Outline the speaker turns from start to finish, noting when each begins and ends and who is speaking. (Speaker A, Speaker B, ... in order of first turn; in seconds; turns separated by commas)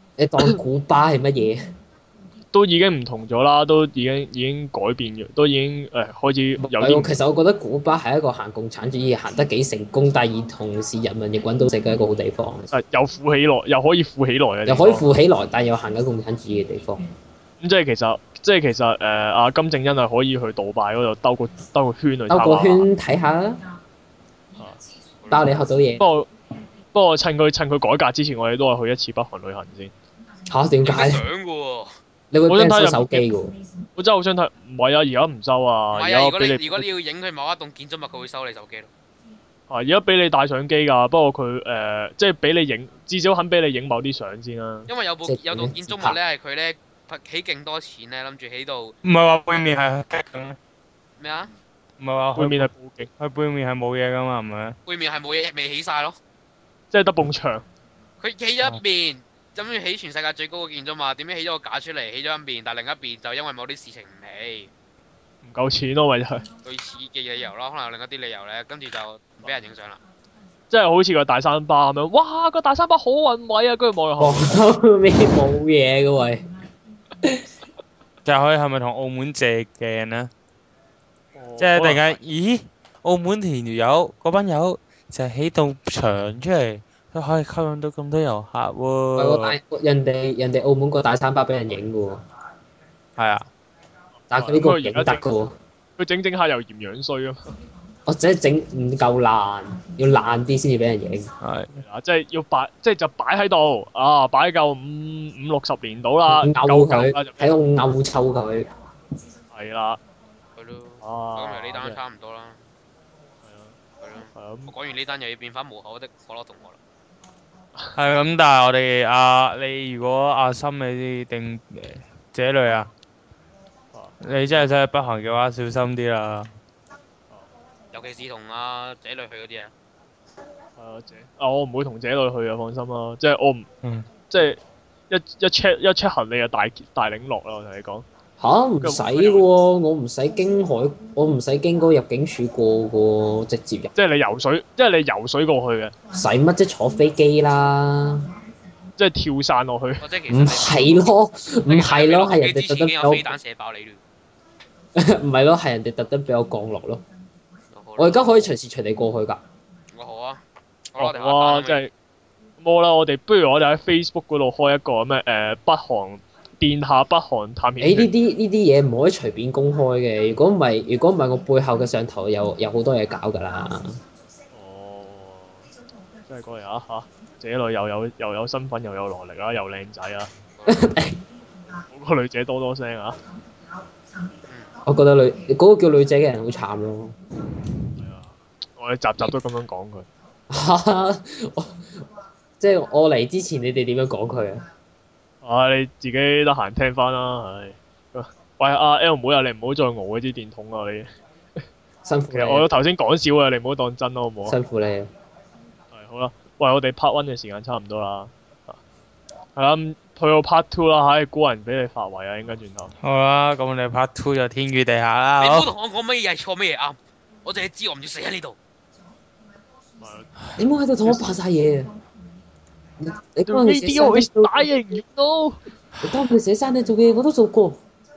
Speaker A: 0.2-1.6, Speaker B: 2.5-7.1, Speaker A: 6.6-12.7, Speaker B: 12.7-15.1, Speaker A: 14.7-17.0, Speaker B: 17.6-22.9, Speaker A: 22.3-23.6, Speaker C: 25.2-25.6, Speaker A: 25.3-26.1, Speaker B: 26.0-26.3, Speaker B: 26.9-29.9, Speaker A: 30.5-31.2, Speaker C: 30.8-31.9, Speaker A: 32.3-33.5, Speaker B: 32.5-33.3, Speaker B: 34.0-36.9, Speaker C: 35.9-38.9, Speaker B: 39.7-44.9, Speaker C: 44.9-49.0, Speaker A: 45.2-46.2, Speaker D: 49.0-50.6, Speaker C: 51.2-51.5, Speaker D: 52.0-54.8, Speaker B: 52.4-53.1, Speaker C: 54.9-56.2, Speaker B: 56.9-57.6, Speaker C: 58.2-64.7, Speaker B: 65.4-66.4, Speaker C: 66.7-70.0, Speaker B: 70.7-74.7, Speaker A: 74.2-76.4, Speaker D: 78.2-80.3, Speaker B: 81.3-82.2, Speaker D: 81.6-89.6, Speaker A: 89.2-92.2, Speaker D: 93.2-93.5, Speaker B: 94.3-95.2, Speaker A: 94.3-95.5, Speaker B: 96.0-97.4, Speaker A: 98.1-101.3, Speaker D: 101.4-101.8, Speaker B: 101.7-107.5, Speaker A: 106.3-108.7, Speaker B: 109.5-110.0, Speaker C: 110.6-112.6, Speaker B: 111.0-112.0, Speaker B: 113.4-113.8, Speaker C: 114.0-116.8, Speaker B: 114.3-114.7, Speaker D: 118.0-122.9, Speaker D: 124.2-126.5, Speaker C: 127.9-129.7, Speaker B: 130.8-133.7, Speaker D: 133.8-134.1, Speaker B: 134.3-138.1, Speaker A: 138.4-143.9, Speaker B: 138.8-139.5, Speaker B: 143.9-145.9, Speaker A: 146.1-148.2, Speaker B: 149.0-150.1, Speaker C: 150.0-151.1, Speaker A: 150.3-153.4, Speaker C: 151.7-154.0, Speaker A: 155.0-157.0, Speaker C: 157.7-158.5, Speaker A: 158.0-159.4, Speaker C: 159.9-161.8, Speaker B: 161.0-161.9, Speaker B: 162.6-168.1, Speaker A: 167.8-173.9, Speaker B: 174.5-175.7, Speaker B: 176.3-180.3, Speaker C: 180.6-180.9, Speaker A: 180.7-181.2, Speaker B: 181.9-183.2, Speaker A: 184.8-187.2, Speaker B: 188.0-190.1, Speaker A: 190.5-191.9, Speaker A: 192.6-194.6, Speaker B: 195.4-201.1, Speaker A: 202.1-202.7, Speaker B: 202.3-204.6, Speaker A: 204.5-205.1, Speaker B: 205.9-208.8, Speaker B: 209.6-212.9, Speaker D: 213.0-215.7, Speaker C: 215.4-218.6, Speaker B: 220.0-220.3, Speaker A: 220.6-221.9, Speaker A: 223.0-224.7, Speaker B: 223.5-225.6, Speaker A: 226.0-227.8